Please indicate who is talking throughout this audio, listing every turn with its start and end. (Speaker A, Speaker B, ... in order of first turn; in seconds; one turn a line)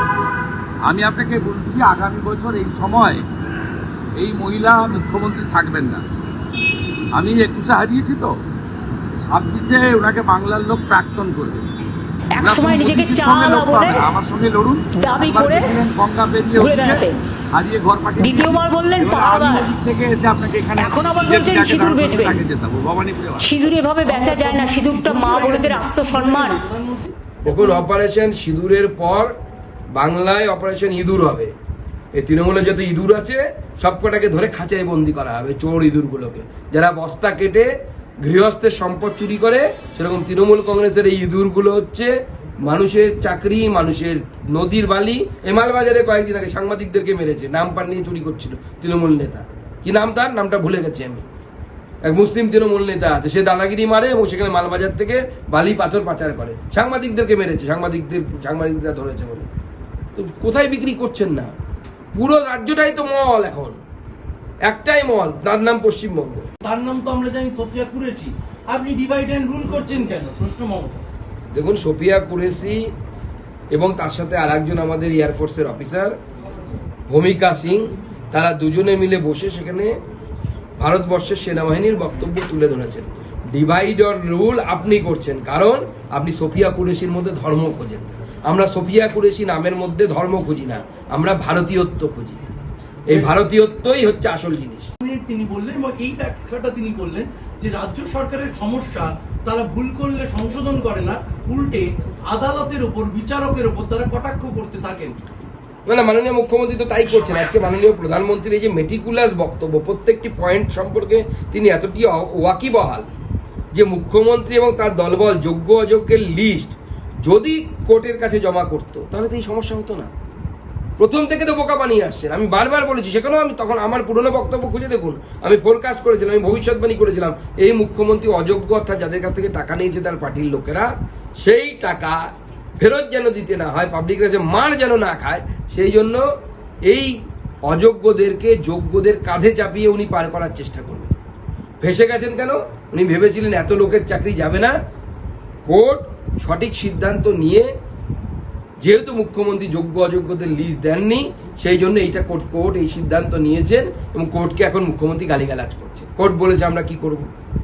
Speaker A: 0.8-3.2
Speaker A: 4.2-6.0
Speaker A: 7.1-8.3
Speaker A: 9.2-11.7
Speaker B: 12.3-14.1
Speaker A: 12.4-23.7
Speaker B: 14.9-15.8
Speaker B: 16.6-17.2
Speaker B: 18.2-19.7
Speaker B: 20.8-22.4
Speaker B: 23.4-26.6
Speaker C: 24.0-27.8
Speaker D: 27.4-29.3
Speaker D: 29.9-31.5
Speaker D: 32.1-37.7
Speaker D: 38.2-42.1
Speaker D: 42.6-51.2
Speaker D: 52.0-59.5
Speaker D: 60.1-61.5
Speaker D: 62.1-63.8
Speaker D: 64.7-66.5
Speaker C: 66.6-71.0
Speaker D: 71.5-72.8
Speaker D: 73.7-76.1
Speaker D: 77.1-79.9
Speaker D: 80.8-92.4
Speaker D: 93.1-94.9
Speaker C: 95.0-105.2
Speaker D: 105.9-113.1
Speaker D: 113.7-120.1
Speaker D: 121.0-130.9
Speaker D: 131.4-132.2
Speaker D: 132.8-136.2
Speaker D: 137.7-141.1
Speaker D: 141.8-144.7
Speaker D: 145.7-147.7
Speaker D: 148.8-157.2